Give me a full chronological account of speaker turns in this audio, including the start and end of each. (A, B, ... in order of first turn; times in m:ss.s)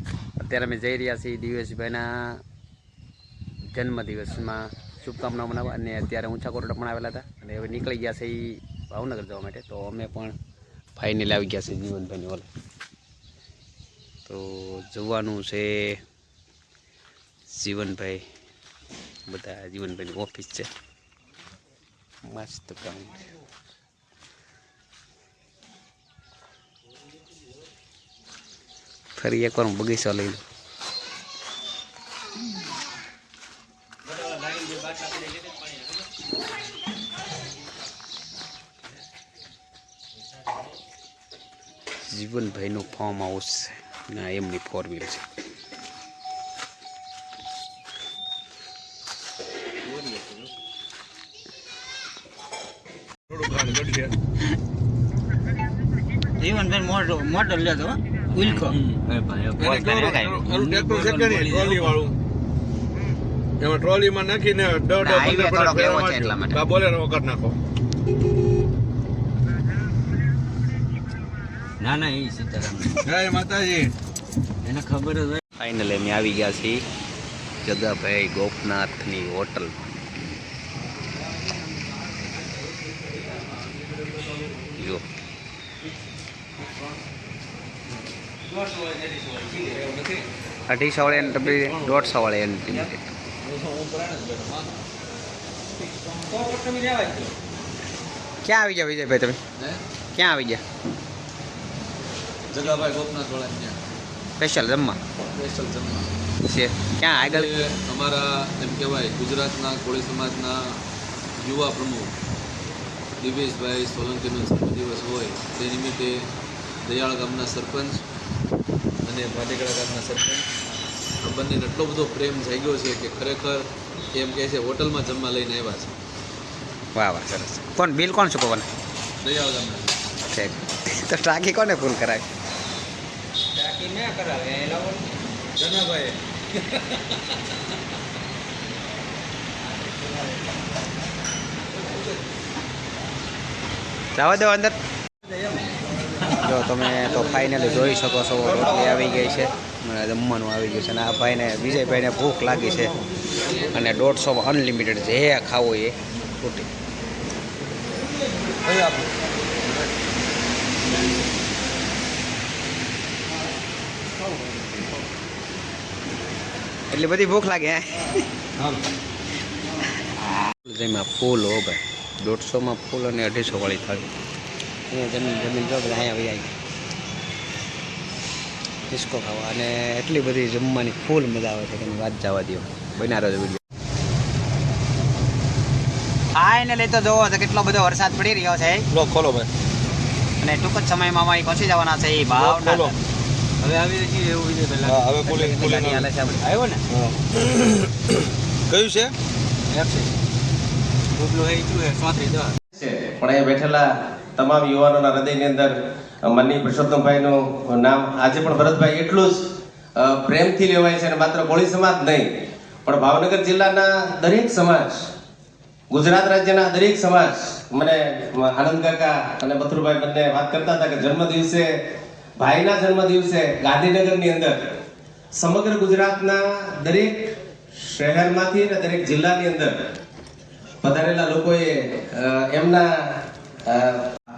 0:00.4-0:02.4 A
0:03.7-0:10.3 A
0:11.0-0:12.4 A
0:14.2-0:16.0 A
0:17.5-0:18.2 A
0:19.3-0:20.7 A
0:22.2-0:23.2 A
0:29.2-0:30.4 A
0:42.1-0:45.2 A
0:53.4-0:54.1 B
0:56.4-0:57.6 A
0:58.3-0:58.8 A
0:58.8-0:59.5 C
0:59.4-1:01.7 A
0:59.6-1:02.1 B
1:03.6-1:07.5 B
1:04.9-1:06.6 A
1:11.8-1:13.1 C
1:14.7-1:15.3 C
1:15.6-1:16.8 A
1:17.6-1:19.8 A
1:24.8-1:25.0 A
1:30.7-1:33.0 A
1:38.4-1:39.4 A
1:40.1-1:40.6 A
1:42.5-1:43.8 D
1:44.4-1:45.0 A
1:45.4-1:46.1 D
1:46.4-1:47.5 A
1:47.1-1:50.8 D
1:51.4-1:52.1 D
1:53.2-1:56.2 D
1:56.8-1:58.0 D
1:59.0-2:00.4 D
2:01.2-2:05.9 D
2:06.9-2:08.7 A
2:09.2-2:09.8 D
2:10.3-2:12.2 A
2:14.1-2:14.6 C
2:15.6-2:16.0 D
2:24.1-2:24.7 A
2:26.4-2:33.0 A
2:33.5-2:36.7 A
2:46.9-2:48.2 A
2:50.6-2:54.0 A
2:54.9-2:56.5 A
2:58.9-3:03.6 A
3:06.3-3:08.9 A
3:08.9-3:09.4 B
3:10.4-3:12.9 A
3:12.4-3:12.9 B
3:13.6-3:15.3 C
3:14.9-3:16.0 B
3:15.2-3:16.5 A
3:21.2-3:22.5 C
3:22.7-3:32.3 E
3:32.8-3:35.1 E
3:35.9-3:41.7 E
3:42.4-3:44.7 E
3:45.3-3:49.8 E
3:50.8-3:54.1 E